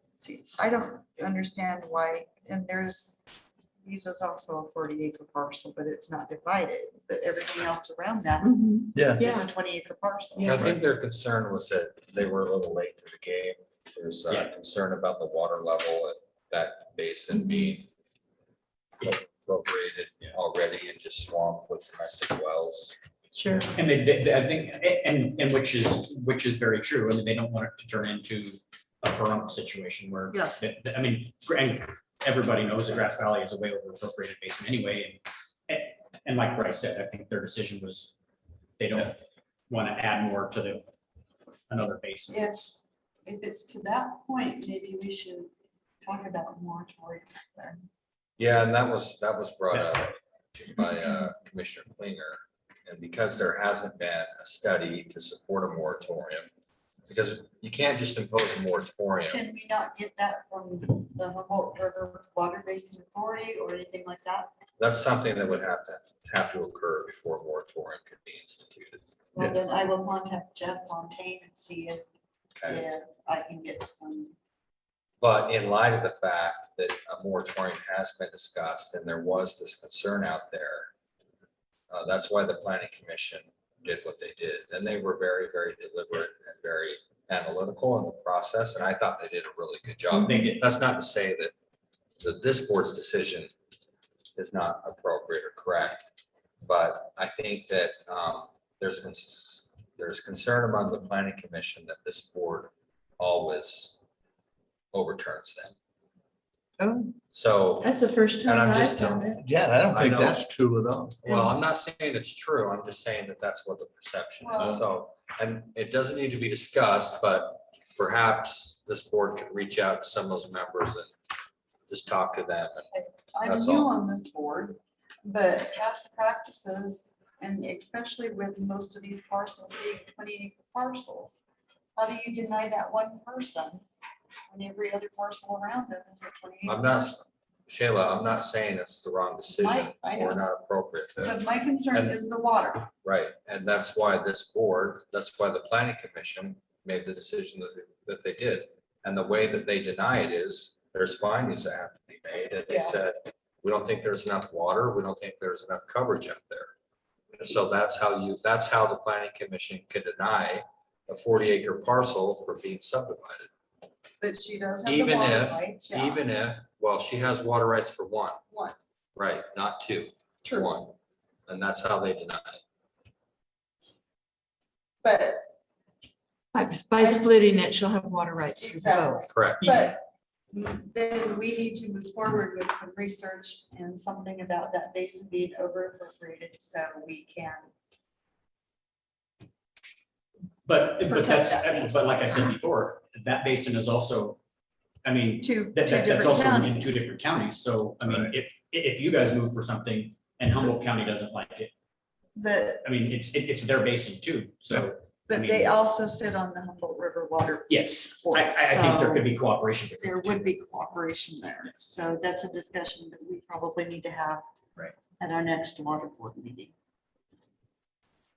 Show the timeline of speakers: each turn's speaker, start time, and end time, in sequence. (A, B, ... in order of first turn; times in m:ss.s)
0:00.2-0:03.2 A
0:03.8-0:10.6 A
0:08.4-0:09.5 B
0:08.9-0:09.2 C
0:10.3-0:10.7 B
0:10.4-0:17.9 D
0:19.0-0:22.9 D
0:23.3-0:23.7 B
0:23.7-0:38.1 E
0:30.3-0:30.7 A
0:38.8-0:40.9 E
0:41.7-0:42.7 E
0:42.3-0:45.5 A
0:46.0-0:47.8 A
0:48.4-0:56.5 D
0:57.1-0:59.4 D
0:59.3-1:04.5 A
1:04.8-1:09.0 D
1:09.3-1:12.0 A
1:12.6-1:12.8 D
1:12.6-1:14.3 A
1:15.2-1:20.9 D
1:21.9-1:31.5 D
1:30.1-1:30.6 E
1:32.2-1:33.5 D
1:34.4-1:36.0 D
1:36.6-1:44.0 D
1:44.9-1:45.7 D
1:46.8-1:47.1 B
1:47.3-1:49.3 D
1:47.8-1:49.4 B
1:49.4-1:51.2 C
1:49.9-1:50.4 D
1:51.2-2:01.1 D
1:51.3-1:51.5 A
1:54.4-1:54.8 A
2:01.9-2:02.9 D
2:02.9-2:11.4 A
2:03.4-2:03.9 D
2:12.0-2:13.8 A
2:14.5-2:17.1 A
2:16.6-2:21.4 D
2:19.5-2:20.4 A
2:21.2-2:22.9 A
2:21.9-2:22.2 D
2:23.0-2:36.7 D
2:32.7-2:33.0 A
2:37.4-2:43.5 D
2:44.2-2:46.2 A
2:44.8-2:48.4 D
2:48.5-2:48.8 A
2:49.2-2:50.9 D
2:50.4-2:50.7 A
2:51.5-2:52.6 D
2:55.0-2:55.4 A
2:56.5-2:59.2 B
2:57.0-2:57.3 A
2:58.6-3:00.0 A
2:59.3-2:59.7 D
3:00.5-3:07.7 A
3:10.6-3:14.4 E
3:11.1-3:12.2 A
3:15.0-3:21.7 E
3:15.4-3:17.0 A
3:18.0-3:18.3 C
3:22.4-3:22.8 A
3:22.8-3:25.7 E
3:25.3-3:29.3 A
3:27.7-3:30.4 E
3:30.0-3:34.4 A
3:35.2-3:36.7 A